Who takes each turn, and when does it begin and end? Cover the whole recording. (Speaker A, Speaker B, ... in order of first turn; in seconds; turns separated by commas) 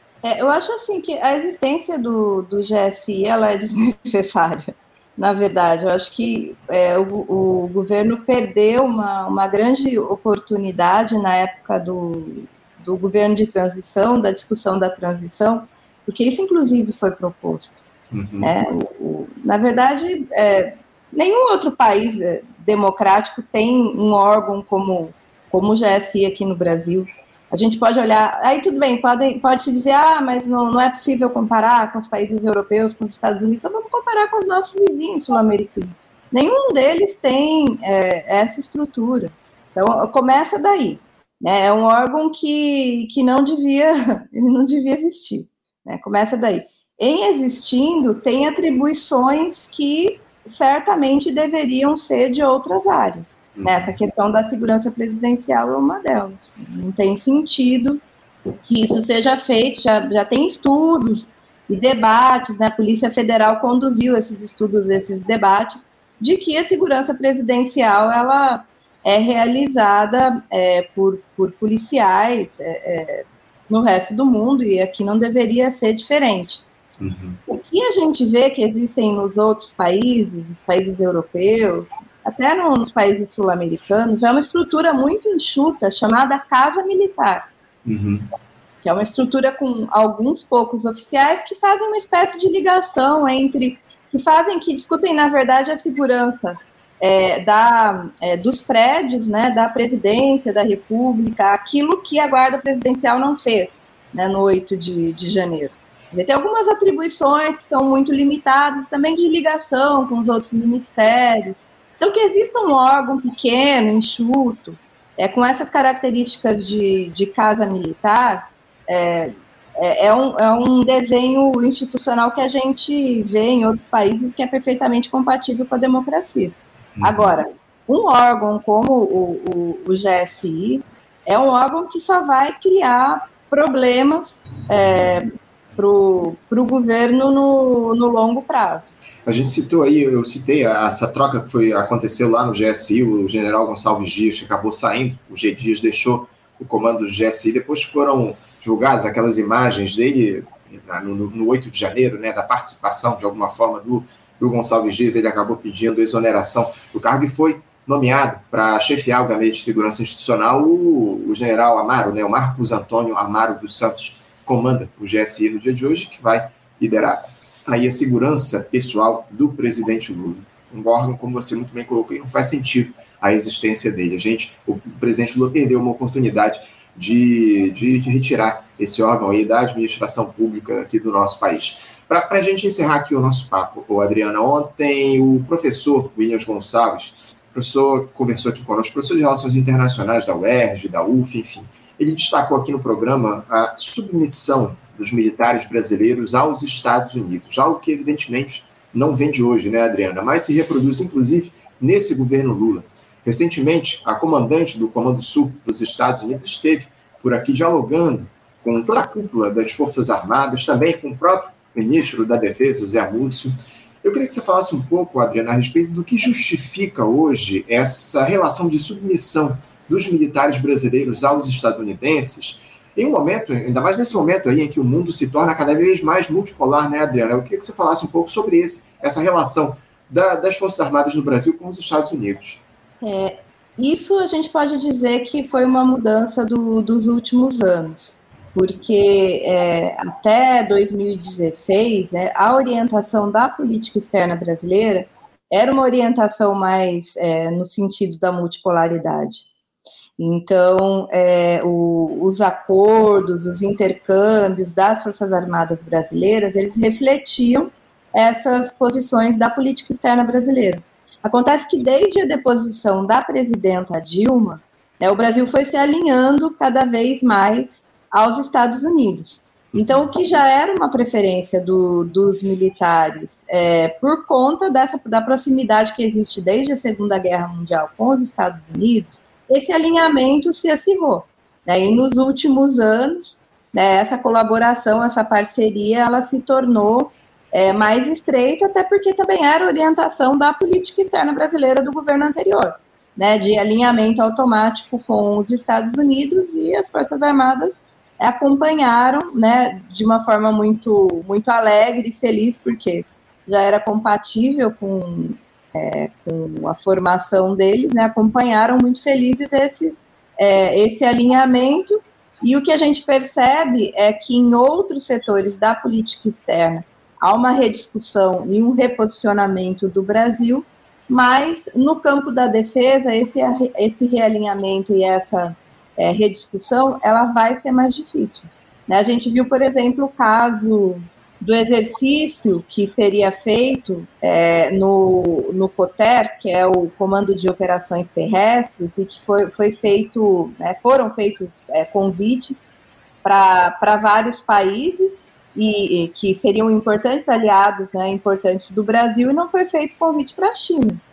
Speaker A: 0.2-17.9, Speaker B: 18.1-18.5, Speaker A: 18.4-58.0, Speaker B: 53.5-54.0, Speaker A: 58.6-76.7, Speaker B: 77.0-77.4, Speaker A: 77.5-87.5, Speaker B: 87.9-88.2, Speaker A: 88.8-138.9, Speaker B: 127.0-127.4, Speaker B: 139.3-232.6, Speaker A: 233.0-249.5, Speaker A: 250.2-342.6, Speaker B: 269.7-270.1, Speaker A: 343.2-351.0